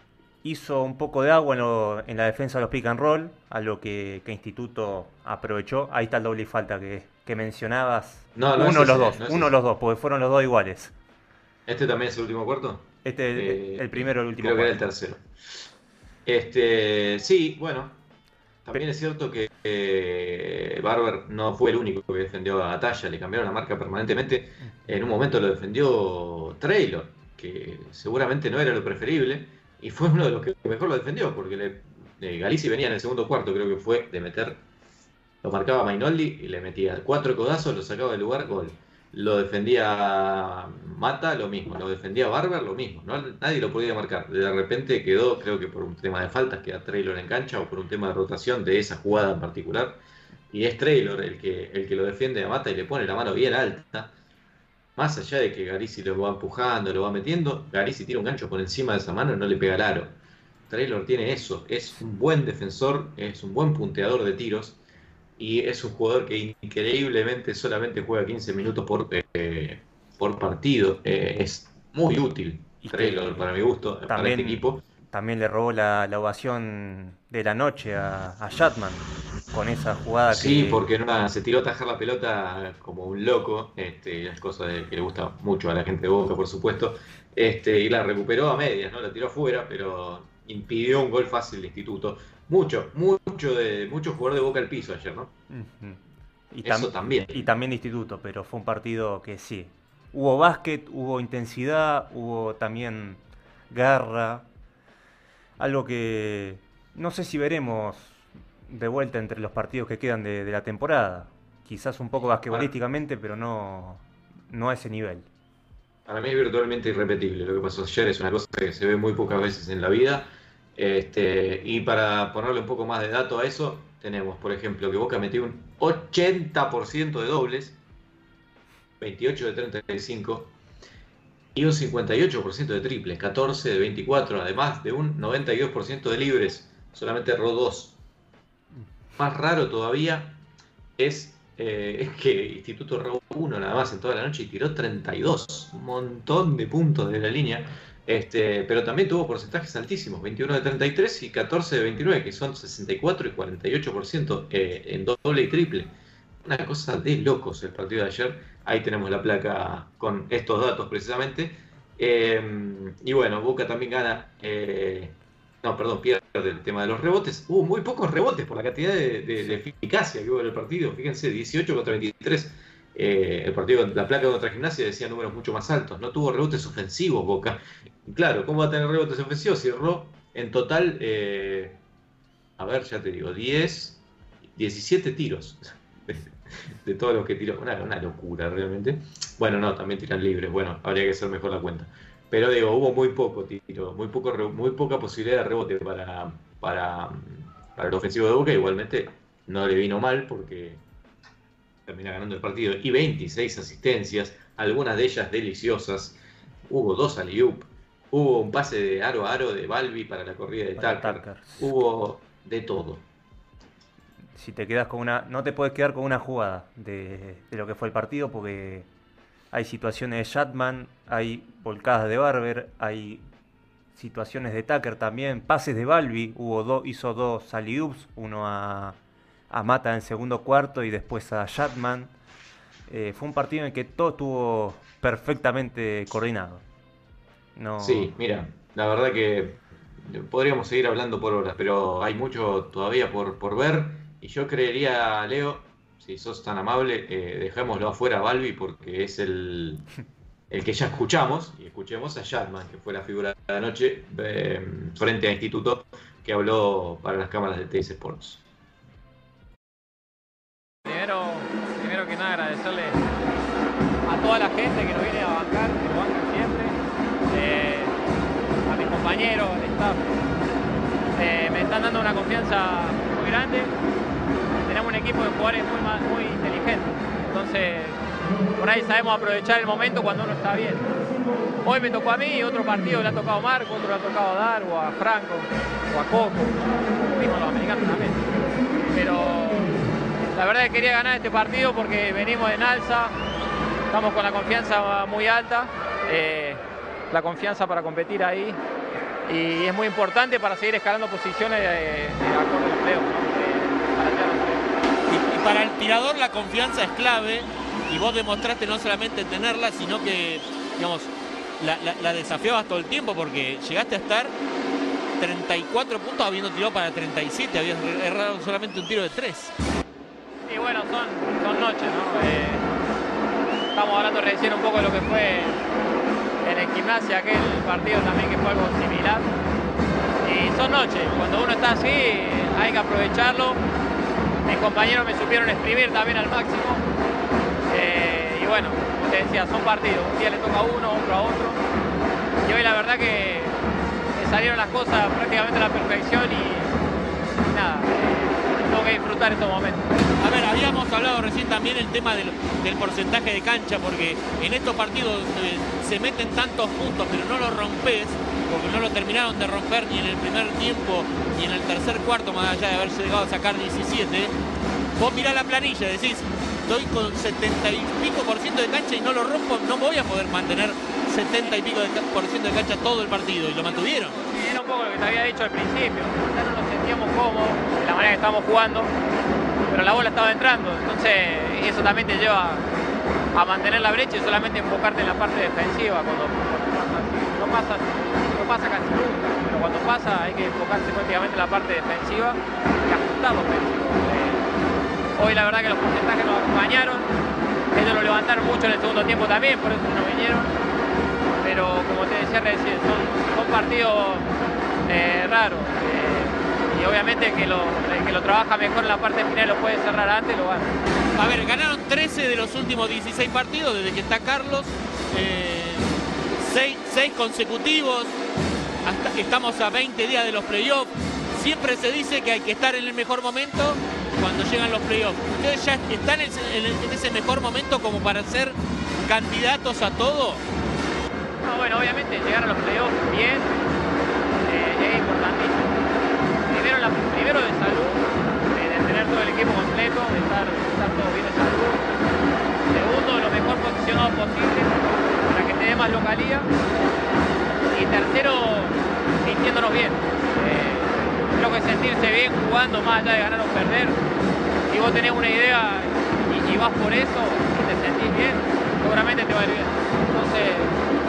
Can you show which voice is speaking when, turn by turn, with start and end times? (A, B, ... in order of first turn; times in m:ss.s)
0:00.4-0:10.9 A
0:08.4-0:09.6 B
0:11.7-0:15.2 B
0:13.0-0:14.8 A
0:16.3-0:18.0 B
0:18.6-0:34.6 B
0:35.4-0:50.0 B
0:50.5-0:54.1 B
0:55.0-1:00.2 B
1:00.7-1:04.8 B
1:05.4-1:14.8 B
1:12.8-1:13.5 A
1:14.1-1:20.8 A
1:20.3-1:35.3 B
1:35.5-1:36.0 A
1:36.5-1:44.5 A
1:36.6-1:37.5 B
1:45.6-1:55.3 A
1:56.1-2:07.8 B
2:09.0-2:10.5 B
2:11.6-2:18.0 B
2:19.2-2:20.4 B
2:21.0-2:35.9 B
2:36.4-3:01.8 B
3:02.6-3:04.0 B
3:04.6-3:20.8 B
3:21.9-3:33.0 B
3:30.8-3:31.7 A
3:34.4-3:38.9 A
3:39.5-3:43.3 A
3:44.0-3:49.0 A
3:49.5-3:52.1 A
3:52.9-3:56.6 A
3:57.6-3:58.1 A
3:57.8-4:09.9 B
4:10.5-4:18.4 B
4:20.8-4:23.0 C
4:24.0-4:26.8 C
4:27.3-4:28.0 C
4:28.7-4:30.1 C
4:31.2-4:33.7 C
4:34.5-4:38.0 C
4:38.6-4:40.9 C
4:41.6-4:48.3 C
4:48.9-4:49.7 C
4:50.3-4:53.1 C
4:53.9-4:58.6 C
4:59.3-5:04.6 C
5:05.1-5:14.3 D
5:15.2-5:19.5 D
5:20.5-5:22.6 C
5:23.7-5:25.6 C
5:26.4-5:29.3 C
5:30.2-5:33.6 C
5:34.4-5:36.8 C
5:37.7-5:41.6 C
5:42.4-5:43.6 C
5:44.1-5:46.7 C
5:47.4-5:49.9 C
5:50.2-6:04.3 D
6:05.0-6:14.2 D
6:14.0-6:18.9 C
6:19.7-6:22.7 C
6:23.3-6:34.4 C
6:35.2-6:37.1 C
6:37.7-6:40.6 C
6:41.4-6:44.3 C
6:44.9-6:50.7 C
6:51.1-6:55.9 D
6:56.4-6:58.1 D
6:58.8-7:10.4 D
7:11.4-7:13.6 C
7:14.4-7:15.7 C
7:16.5-7:18.0 C
7:18.5-7:22.0 C
7:22.7-7:26.5 C
7:27.7-7:34.0 C
7:34.7-7:40.7 C